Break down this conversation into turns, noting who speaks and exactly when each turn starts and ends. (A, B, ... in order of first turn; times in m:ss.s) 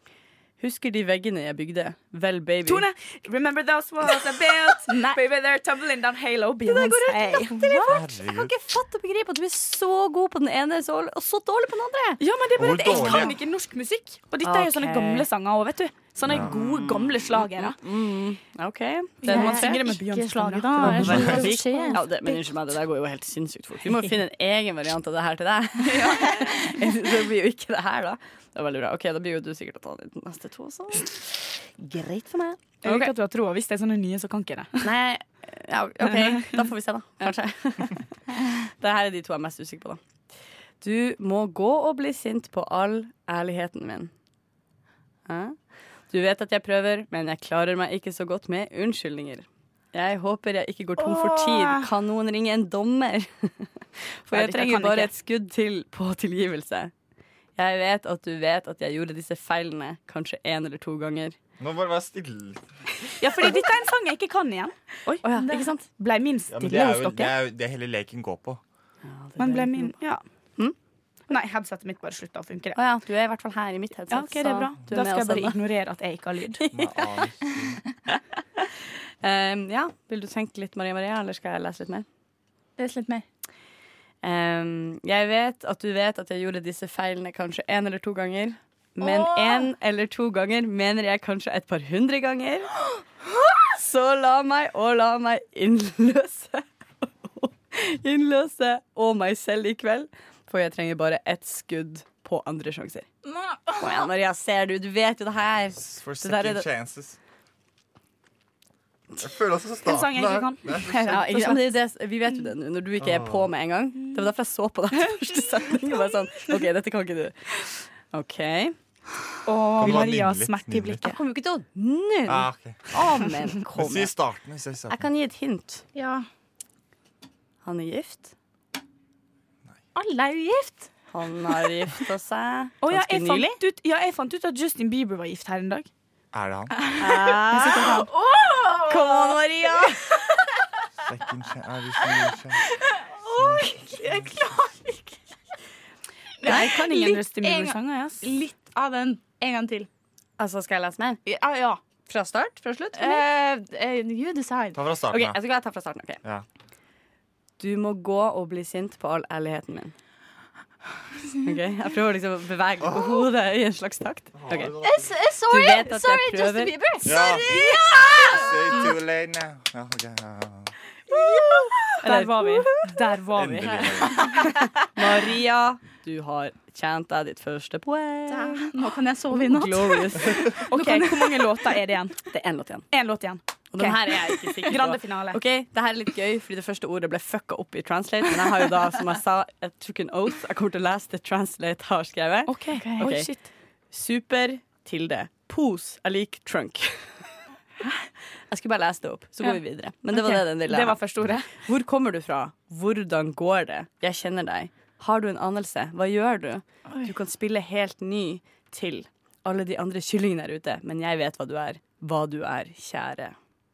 0:00.6-0:02.9 A
0:02.6-0:07.6 B
0:06.7-0:12.2 A
0:07.8-0:08.5 C
0:12.2-0:17.8 B
0:12.6-0:13.3 C
0:14.4-0:15.3 A
0:16.2-0:16.5 C
0:16.3-0:16.9 A
0:17.6-0:19.9 A
0:19.2-0:22.0 B
0:19.2-0:22.3 D
0:20.8-0:33.1 A
0:21.1-0:21.3 C
0:25.8-0:26.7 B
0:32.8-0:34.9 B
0:34.8-0:40.0 A
0:36.0-0:36.6 B
0:40.8-0:44.1 A
0:45.3-0:45.6 A
0:46.1-0:53.7 A
0:51.0-0:51.9 D
0:54.2-0:56.9 A
0:54.3-0:55.1 B
0:57.6-1:01.4 A
1:01.6-1:02.6 C
1:03.2-1:05.2 B
1:05.2-1:05.8 A
1:05.3-1:05.6 D
1:05.9-1:07.4 B
1:06.5-1:08.6 C
1:09.0-1:10.0 A
1:09.4-1:10.2 B
1:11.3-1:12.8 B
1:12.8-1:15.6 A
1:14.1-1:16.6 B
1:16.6-1:17.0 A
1:16.7-1:17.8 C
1:19.2-1:22.0 A
1:22.8-1:23.2 D
1:24.2-1:32.8 A
1:29.0-1:29.7 D
1:33.7-1:43.1 A
1:43.3-1:43.9 D
1:43.8-1:46.7 A
1:45.8-1:47.2 C
1:49.2-1:51.2 C
1:49.8-1:51.7 B
1:51.1-1:58.7 A
1:53.0-1:53.5 C
1:59.4-2:01.2 B
1:59.8-2:01.0 C
2:01.0-2:04.1 A
2:02.2-2:02.8 C
2:03.7-2:05.0 C
2:04.9-2:05.8 A
2:05.9-2:06.3 D
2:07.6-2:08.3 A
2:09.9-2:10.9 D
2:11.1-2:13.6 A
2:12.8-2:15.9 B
2:16.3-2:16.8 C
2:16.8-2:20.2 D
2:17.0-2:18.1 A
2:18.9-2:20.0 A
2:21.0-2:22.6 C
2:22.9-2:25.2 D
2:23.3-2:23.7 C
2:26.4-2:29.9 D
2:26.4-2:28.2 B
2:30.4-2:31.2 A
2:31.2-2:31.8 D
2:32.1-2:33.2 A
2:32.9-2:34.8 D
2:34.7-2:35.4 C
2:35.1-2:36.2 A
2:37.6-2:39.9 A
2:41.4-2:44.8 A
2:44.3-2:45.1 C
2:44.8-2:48.9 D
2:45.5-2:47.2 A
2:47.0-2:50.7 C
2:51.1-2:53.7 D
2:51.3-2:53.0 A
2:53.0-2:53.6 B
2:53.3-2:54.4 C
2:54.2-2:54.5 D
2:54.9-3:00.6 A
2:58.3-3:01.1 D
3:00.7-3:02.3 B
3:02.3-3:02.9 A
3:02.9-3:05.4 B
3:03.7-3:13.3 A
3:12.4-3:13.5 B
3:12.8-3:13.1 D
3:13.9-3:17.2 A
3:18.5-3:21.0 A
3:20.1-3:21.5 B
3:21.5-3:33.4 A